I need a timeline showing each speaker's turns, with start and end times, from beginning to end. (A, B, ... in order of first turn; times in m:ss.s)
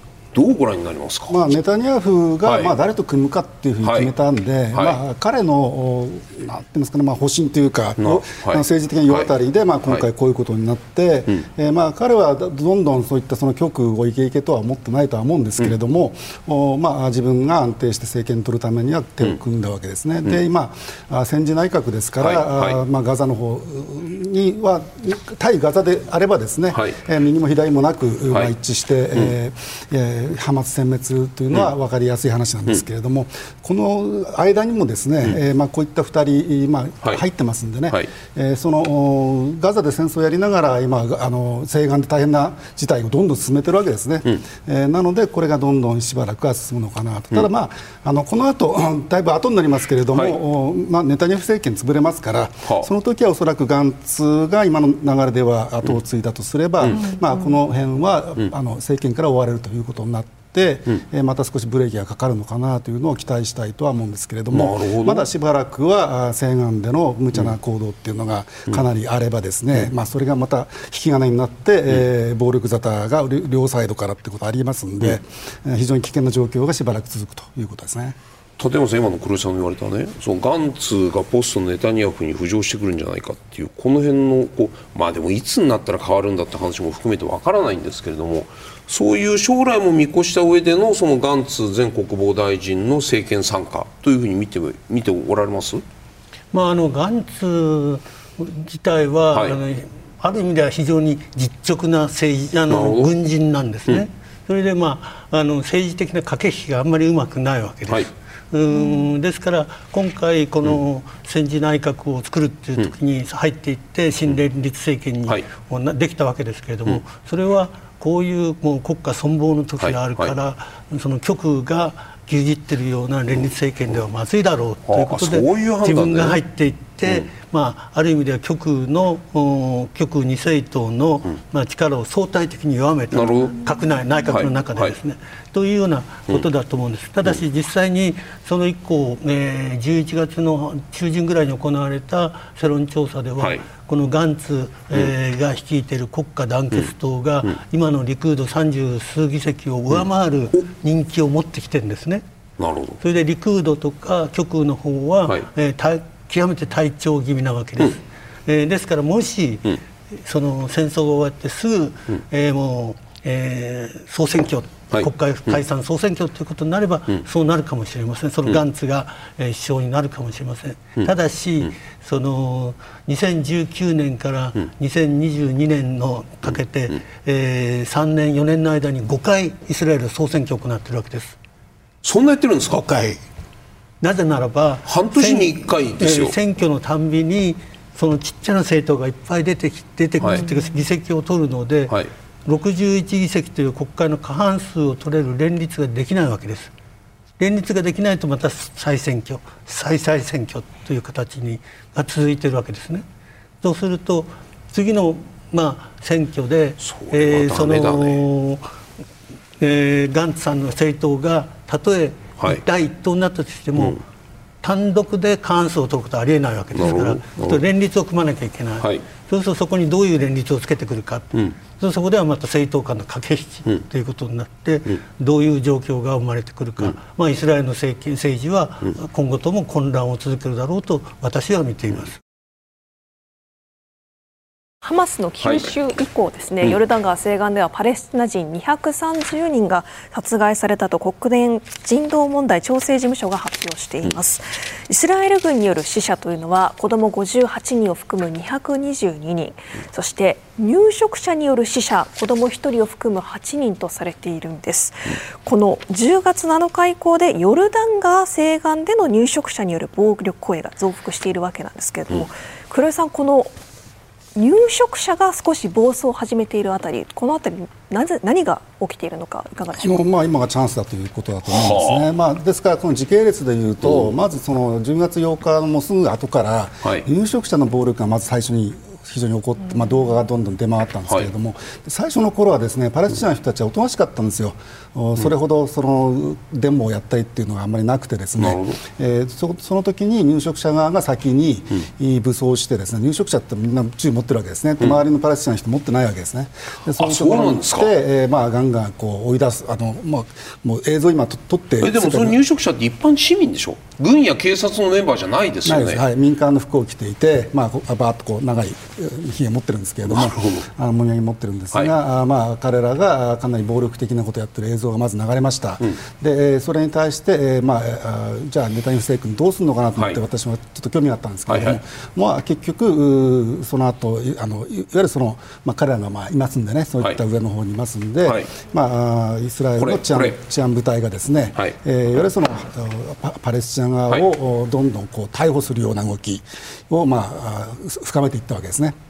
0:00.3-0:01.4 A
0:01.3-1:18.2 B
0:02.4-0:02.7 A
0:03.8-0:04.1 A
0:04.7-0:05.0 A
0:08.0-0:09.3 A
0:22.2-0:22.8 A
1:04.5-1:05.3 A
1:18.6-1:35.8 A
1:36.5-2:32.2 C
1:39.3-1:39.6 A
1:42.7-1:43.2 A
1:59.8-2:00.3 A
2:04.9-2:06.4 A
2:13.1-2:13.6 A
2:14.3-2:14.9 A
2:23.4-2:23.6 A
2:32.6-2:33.0 A
2:33.0-3:01.4 C
3:02.0-3:02.9 A
3:02.8-3:03.2 C
3:04.0-3:16.7 C
3:04.9-3:06.4 A
3:17.4-3:23.0 C
3:23.6-3:28.6 C
3:26.8-3:28.2 A
3:29.6-3:34.0 C
3:34.6-3:52.2 C
3:36.8-3:37.6 A
3:54.8-4:23.5 D
4:24.4-4:29.9 D
4:29.8-5:02.4 B
4:31.5-4:32.1 A
4:48.4-4:48.8 A
4:57.0-4:57.9 A
5:01.8-5:06.0 A
5:05.6-5:39.0 B
5:10.1-5:10.6 A
5:21.5-5:21.8 A
5:29.8-5:30.4 A